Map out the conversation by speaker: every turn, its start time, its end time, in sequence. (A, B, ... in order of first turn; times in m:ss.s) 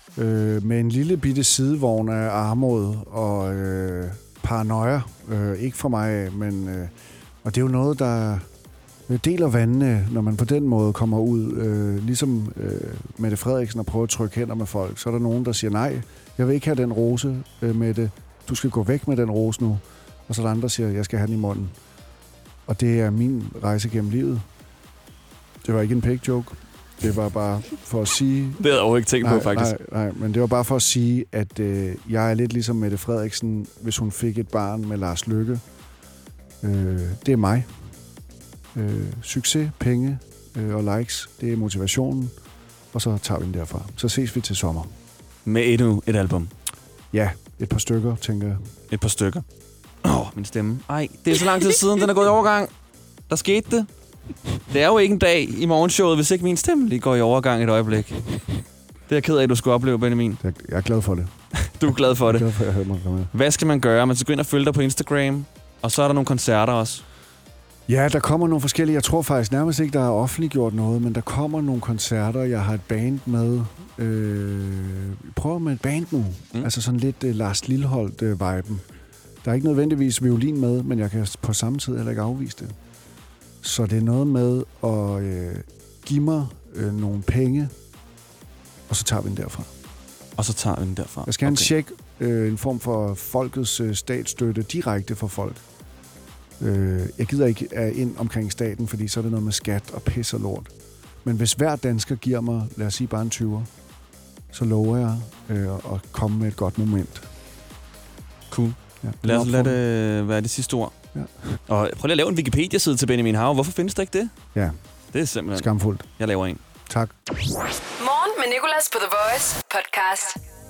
0:00.2-0:08.5 A
0:09.1-0:21.8 A
0:22.7-0:24.4 A
0:25.6-0:28.6 A
0:28.6-0:29.8 B
0:29.2-0:35.6 A
0:36.6-0:37.7 A
0:38.7-0:42.4 A
0:42.9-0:44.9 A
0:45.4-0:46.5 B
0:47.1-0:48.6 A
0:48.9-0:49.4 B
0:50.0-0:52.7 B
0:53.3-0:53.9 B
0:54.7-0:58.2 B
0:59.1-1:00.4 B
1:00.4-1:01.3 A
1:01.6-1:02.5 B
1:01.9-1:03.3 A
1:03.3-1:07.0 B
1:07.9-1:18.9 A
1:19.4-1:22.8 A
1:23.6-1:27.7 A
1:28.9-1:29.7 A
1:30.4-1:31.7 B
1:31.3-1:35.6 A
1:36.6-1:40.7 A
1:41.2-1:43.7 A
1:44.5-1:47.3 A
1:48.5-1:51.0 B
1:49.0-1:49.8 A
1:51.1-1:51.6 A
1:51.7-1:54.4 B
1:55.1-1:56.6 B
1:55.5-1:56.1 A
1:56.9-1:57.2 A
1:58.0-2:00.4 C